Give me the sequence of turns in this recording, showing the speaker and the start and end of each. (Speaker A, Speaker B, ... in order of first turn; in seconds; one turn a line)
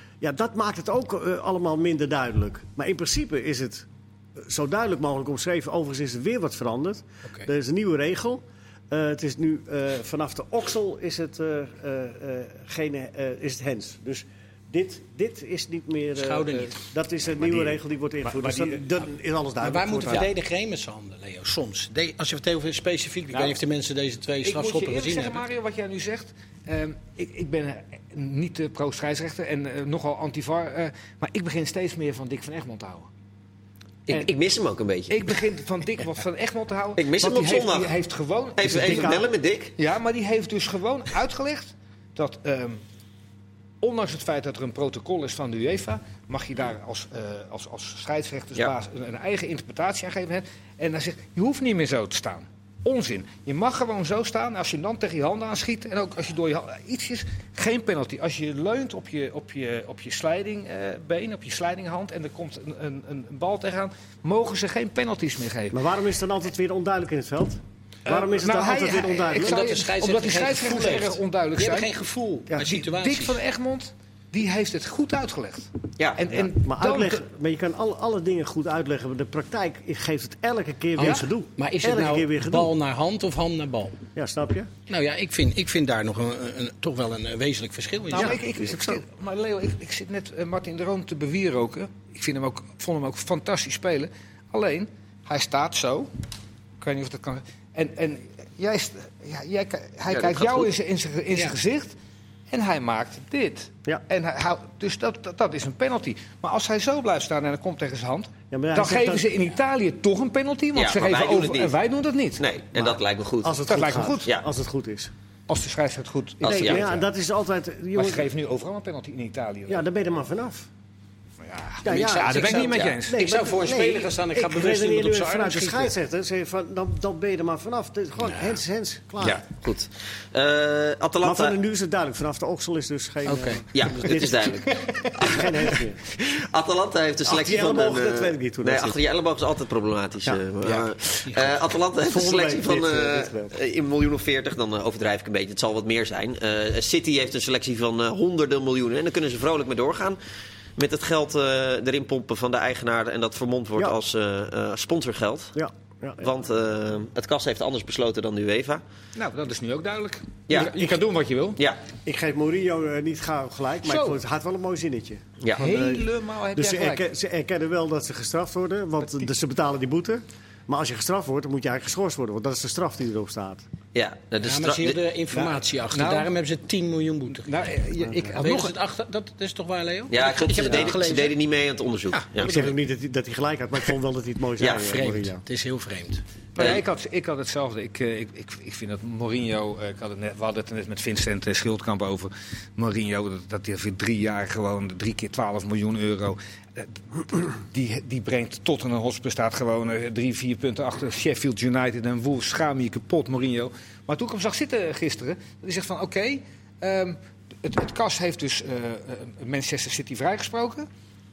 Speaker A: 0.2-20.3
Speaker B: 16.2-16.8
Speaker C: 18.3-18.8
Speaker B: 19.6-25.4
Speaker C: 23.3-23.6
Speaker C: 24.4-33.1
Speaker D: 34.1-35.2
Speaker C: 35.1-39.2
Speaker D: 37.0-37.9
Speaker D: 38.6-39.8
Speaker A: 38.6-39.3
Speaker C: 39.8-42.8
Speaker C: 43.8-65.8
Speaker A: 65.7-69.7
Speaker C: 68.1-71.9
Speaker B: 69.4-73.4
Speaker C: 72.6-77.2
Speaker D: 76.0-76.3
Speaker A: 76.3-82.7
Speaker B: 81.0-84.0
Speaker A: 84.2-84.7
Speaker B: 84.9-88.4
Speaker C: 88.1-96.1
Speaker A: 88.1-89.0
Speaker C: 96.8-102.0
Speaker D: 100.1-100.7
Speaker C: 102.5-112.5
Speaker A: 108.5-109.3
Speaker D: 110.8-111.8
Speaker D: 112.4-113.6
Speaker A: 113.4-115.1
Speaker C: 113.7-114.3
Speaker C: 115.5-117.1
Speaker D: 116.4-116.8
Speaker A: 116.4-118.3
Speaker C: 118.0-119.8
Speaker A: 119.7-120.7
Speaker C: 121.4-123.2
Speaker A: 121.8-129.4
Speaker B: 121.9-125.9
Speaker D: 122.5-123.0
Speaker D: 129.2-131.6
Speaker A: 131.2-136.1
Speaker B: 133.3-133.7
Speaker D: 133.7-135.5
Speaker C: 134.8-135.1
Speaker D: 136.2-150.2
Speaker A: 137.2-139.0
Speaker B: 140.6-141.5
Speaker A: 142.0-143.6
Speaker D: 150.8-155.6
Speaker A: 155.6-156.3
Speaker D: 156.2-158.8
Speaker C: 159.2-161.6
Speaker D: 160.5-160.9
Speaker A: 162.1-173.7
Speaker C: 163.9-164.2
Speaker D: 165.4-165.7
Speaker C: 165.6-167.1
Speaker D: 173.9-175.0
Speaker B: 174.4-177.7
Speaker A: 175.3-175.6
Speaker C: 175.9-176.3
Speaker C: 177.4-178.7
Speaker A: 178.0-178.3
Speaker B: 178.4-181.4
Speaker D: 180.1-182.7
Speaker B: 182.1-182.7
Speaker A: 182.4-185.4
Speaker D: 184.6-185.0
Speaker B: 184.8-186.2
Speaker C: 186.6-210.9
Speaker D: 186.6-186.8